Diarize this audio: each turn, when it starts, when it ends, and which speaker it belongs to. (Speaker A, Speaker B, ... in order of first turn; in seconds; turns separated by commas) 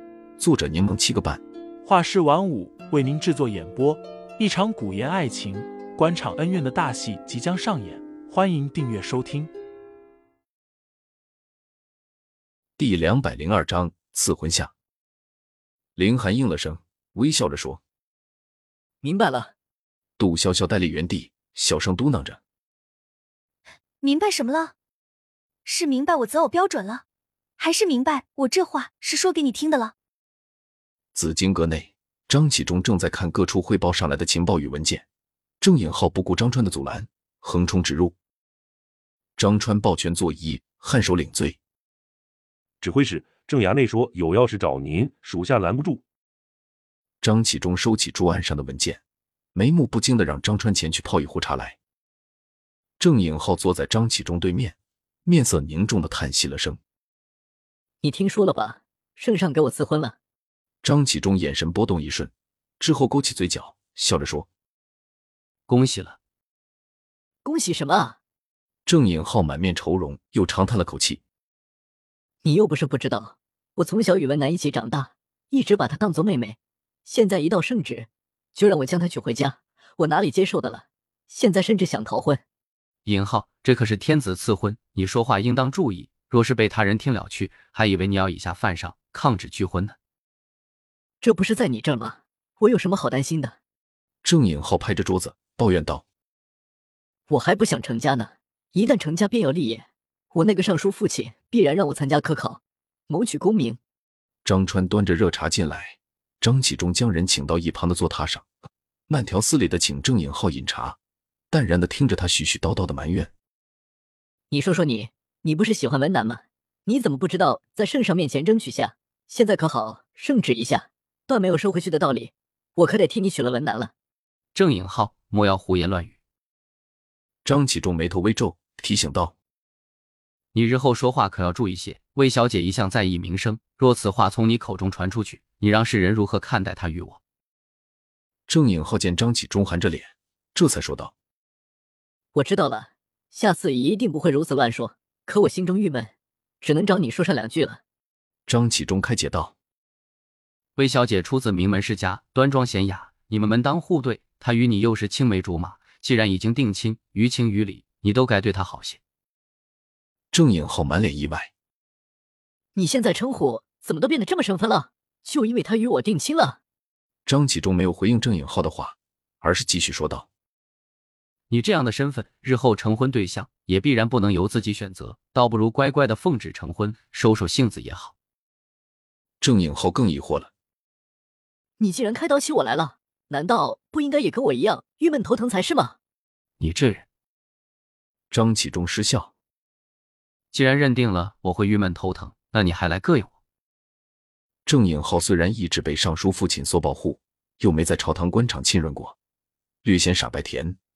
Speaker A: 0.4-1.4, Speaker B: 1.8-9.5, Speaker A: 12.8-14.7, Speaker A: 16.0-17.8, Speaker C: 19.0-19.5, Speaker A: 20.2-22.4, Speaker D: 24.0-24.7, Speaker D: 25.7-27.0, Speaker D: 27.6-29.9, Speaker A: 31.1-35.0, Speaker A: 35.6-38.1, Speaker A: 39.4-41.6, Speaker E: 42.8-46.0, Speaker A: 47.2-49.0, Speaker A: 49.5-51.8, Speaker A: 53.0-56.8, Speaker C: 58.0-60.2, Speaker A: 60.8-64.5, Speaker F: 65.7-66.2, Speaker C: 67.5-68.2, Speaker A: 68.9-71.2, Speaker C: 72.4-82.4, Speaker F: 83.1-90.0, Speaker C: 91.2-93.5, Speaker A: 94.2-96.0, Speaker C: 97.3-103.8, Speaker A: 104.5-108.5, Speaker A: 109.1-111.0, Speaker A: 111.5-113.3, Speaker C: 114.5-123.9, Speaker F: 124.5-126.1, Speaker A: 127.5-129.4, Speaker F: 130.5-137.2, Speaker A: 138.5-141.1, Speaker C: 142.3-146.1, Speaker C: 146.6-147.8, Speaker A: 148.5-149.6, Speaker F: 150.8-159.0, Speaker A: 160.3-161.5, Speaker C: 162.8-166.6, Speaker A: 167.3-170.3, Speaker F: 171.5-178.1, Speaker A: 179.4-180.5, Speaker C: 181.8-186.0, Speaker F: 186.6-187.0, Speaker A: 188.3-189.3, Speaker F: 190.5-193.3, Speaker A: 194.7-199.2, Speaker A: 199.8-200.8